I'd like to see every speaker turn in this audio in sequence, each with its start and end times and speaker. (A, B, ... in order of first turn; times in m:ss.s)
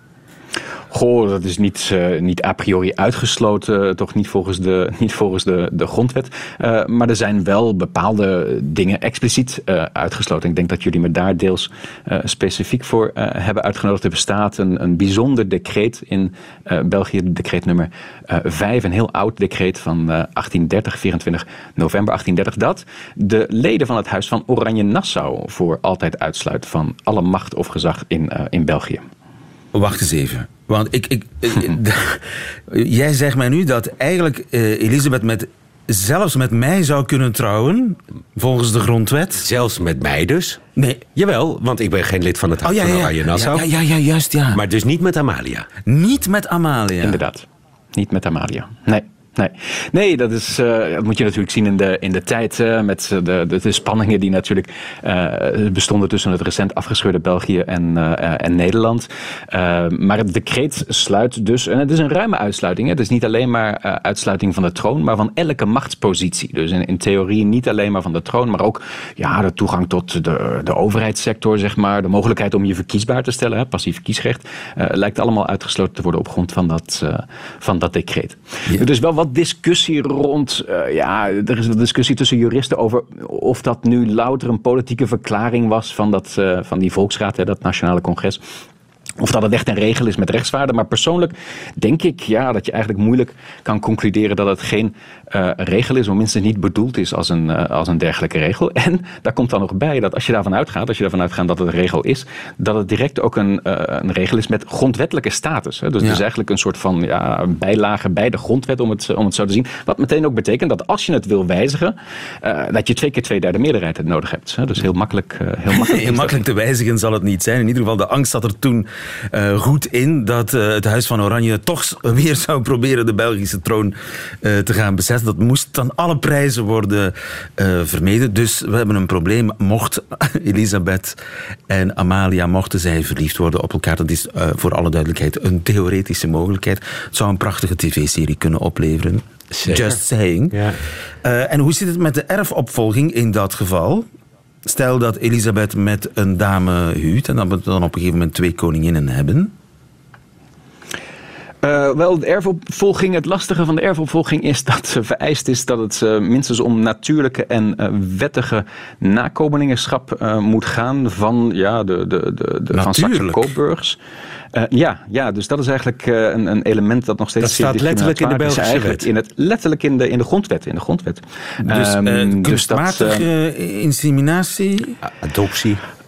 0:00.9-0:29.1 A
0:29.7-0:39.5 B
0:39.4-0:40.6 C
0:40.8-0:41.0 B
0:41.2-0:43.6 C
0:42.6-0:44.6 B
0:44.5-0:45.7 C
0:45.9-0:47.2 B
0:47.0-1:28.4 A
1:29.2-1:56.5 A
1:55.7-2:11.2 B
2:11.7-2:24.1 B
2:19.6-2:20.0 C
2:20.5-2:20.8 C
2:24.6-2:29.5 B
2:31.6-2:44.0 A
2:42.7-2:43.5 B
2:44.5-2:53.2 A
2:47.4-2:49.1 C
2:51.6-2:55.0 B
2:55.2-2:55.8 C